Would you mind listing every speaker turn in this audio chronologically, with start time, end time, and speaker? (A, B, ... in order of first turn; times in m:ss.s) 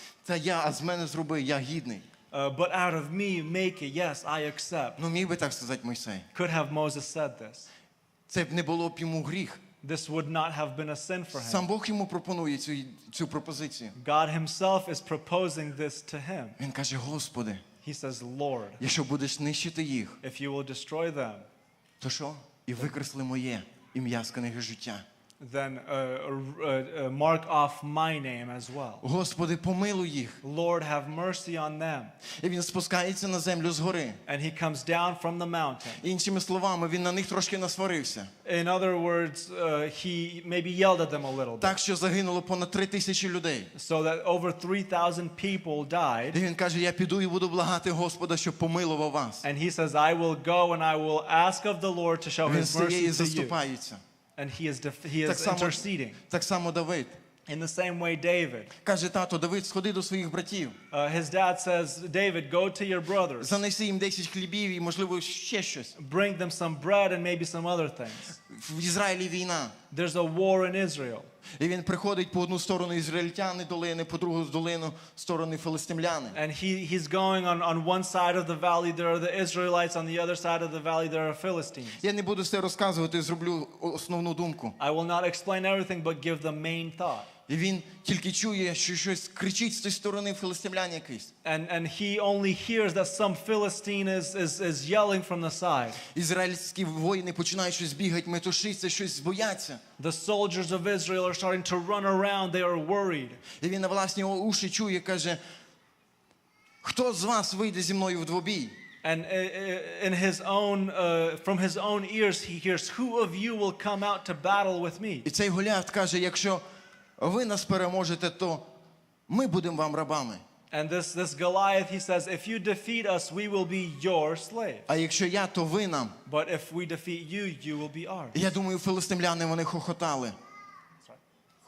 0:00.2-0:02.0 A
0:02.3-0:05.0 B
0:05.0-0:06.3 A
0:06.3-0:07.7 B
0:08.3-0:09.6 A
0:09.8-0:11.7 B
0:11.3-0:13.9 A
0:13.9-0:16.6 B
0:16.6-0:17.6 A
0:17.8-0:18.8 B
0:18.8-0:20.2 A
0:20.2-0:21.4 B
0:22.0-0:25.0 A
0:25.4-0:29.0 B
0:29.0-0:30.4 A
0:30.4-0:32.1 B
0:32.4-0:34.2 A
0:34.3-0:36.0 B
0:36.0-0:38.3 A
0:38.4-0:41.7 B
0:41.6-0:43.7 A
0:43.7-0:46.4 B
0:46.3-0:49.4 A
0:49.4-0:53.6 B
0:52.4-0:54.0 A
0:54.4-0:56.2 B
0:55.2-0:57.1 A
0:57.5-0:58.7 B
0:58.8-1:00.7 A
1:00.9-1:03.6 B
1:03.4-1:05.9 A
1:05.9-1:08.4 B
1:08.4-1:09.7 A
1:09.9-1:11.3 B
1:11.6-1:16.4 A
1:16.3-1:22.0 B
1:22.0-1:24.8 A
1:24.8-1:27.3 B
1:27.5-1:31.3 A
1:31.4-1:36.0 B
1:36.0-1:39.8 A
1:40.0-1:43.4 B
1:43.6-1:45.4 A
1:46.8-1:48.7 A
1:49.0-1:55.3 B
1:55.2-1:56.6 A
1:57.2-1:58.6 A
1:59.3-2:00.4 A
2:00.7-2:04.8 B
2:04.9-2:06.2 A
2:06.2-2:08.4 B
2:08.3-2:10.4 A